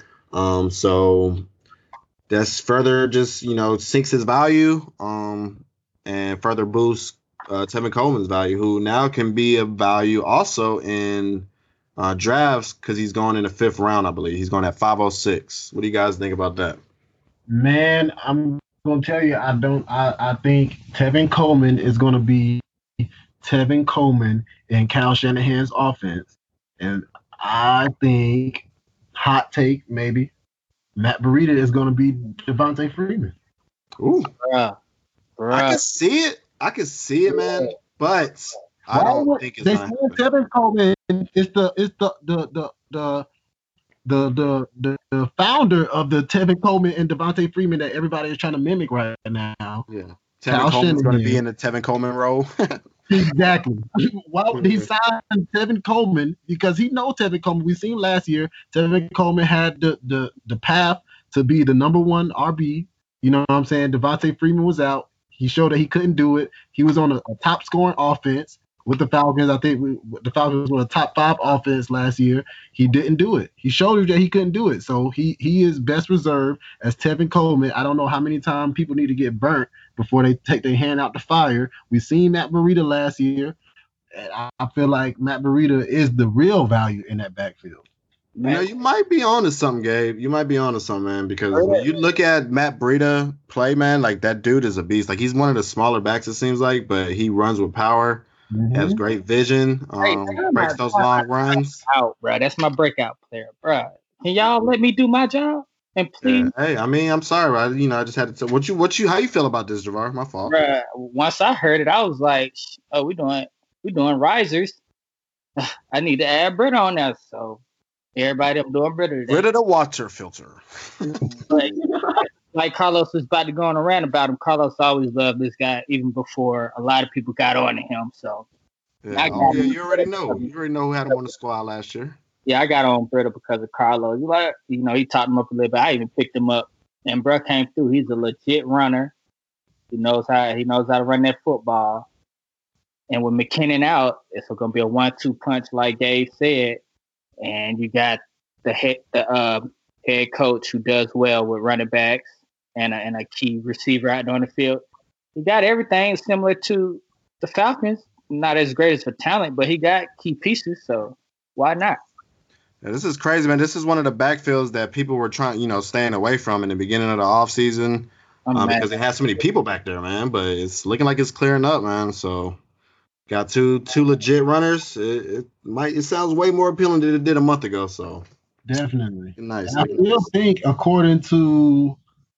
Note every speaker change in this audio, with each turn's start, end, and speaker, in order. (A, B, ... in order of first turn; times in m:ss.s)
0:00.3-0:01.5 A
0:02.3-0:16.8 A
0:17.5-0:30.3 B
0:31.0-0:33.3 B
0:34.0-0:34.3 A
0:34.4-0:34.8 C
0:35.4-0:35.8 C
0:35.5-0:40.2 A
0:37.3-0:37.7 C
0:38.9-0:43.2 B
0:44.0-0:49.8 B
0:49.9-0:52.8 A
0:50.5-0:51.4 B
0:53.1-1:23.6 B
0:54.5-0:54.9 A
1:24.1-1:27.8 B
1:28.4-1:28.6 C
1:28.4-1:41.8 A
1:31.5-1:32.0 C
1:38.5-1:39.0 B
1:40.0-1:46.5 C
1:46.2-1:50.6 A
1:50.5-1:54.8 C
1:55.9-1:57.6 C
1:58.1-1:59.4 C
1:59.3-2:01.4 A
2:01.5-2:01.7 C
2:01.5-2:02.1 B
2:02.5-2:08.4 C
2:09.0-2:12.2 A
2:09.1-2:10.5 C
2:09.3-2:09.8 B
2:12.4-2:19.1 C
2:19.9-2:22.1 C
2:23.1-2:26.8 C
2:27.4-2:34.8 C
2:35.3-2:42.0 C
2:42.8-2:52.6 A
2:48.5-2:48.8 C
2:53.3-2:58.3 A
2:58.6-3:02.0 B
2:59.4-3:00.2 A